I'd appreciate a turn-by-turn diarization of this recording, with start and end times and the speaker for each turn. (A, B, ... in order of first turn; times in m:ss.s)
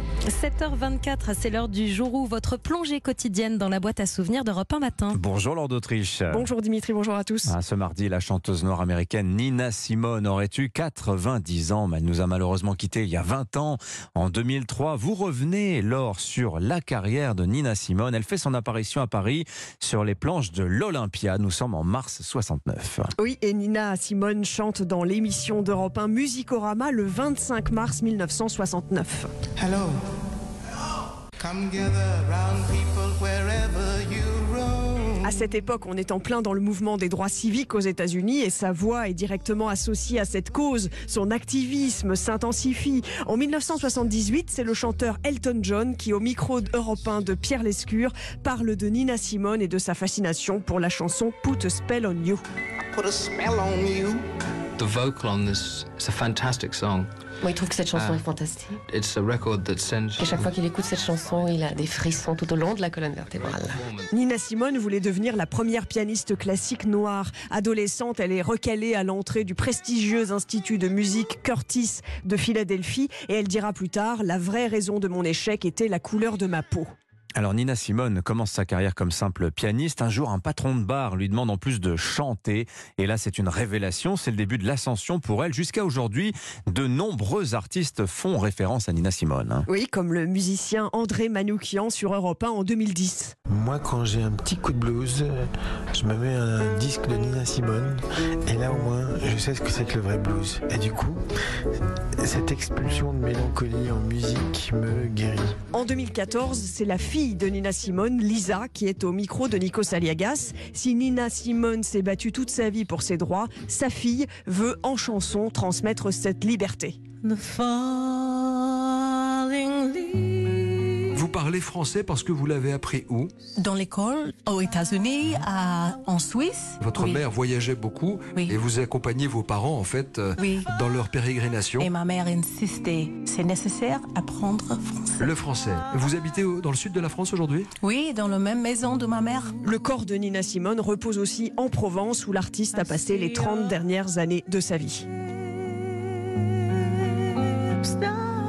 0:00.3-0:05.2 A
0:05.1-0:06.4 B
0:06.3-0:07.5 C
0:07.5-0:23.1 B
0:23.2-0:29.3 C
0:31.5-0:34.2 D
0:35.2-0:52.4 C
0:54.8-0:57.1 E
0:57.4-0:58.8 F
0:58.0-0:58.2 E
0:58.9-1:00.6 E
1:00.2-1:03.8 F
1:04.1-1:16.9 C
1:17.4-1:29.6 B
1:29.7-1:33.3 C
1:33.5-1:41.2 G
1:42.2-1:45.6 G
1:45.7-1:57.0 C
1:57.2-2:00.6 H
2:01.1-2:03.3 I
2:03.6-2:07.2 H
2:06.8-2:11.9 I
2:08.4-2:08.6 H
2:10.4-2:10.7 H
2:11.8-2:15.3 H
2:15.2-2:17.7 I
2:17.8-2:19.6 H
2:19.6-2:25.1 C
2:22.8-2:23.4 H
2:27.8-2:28.1 H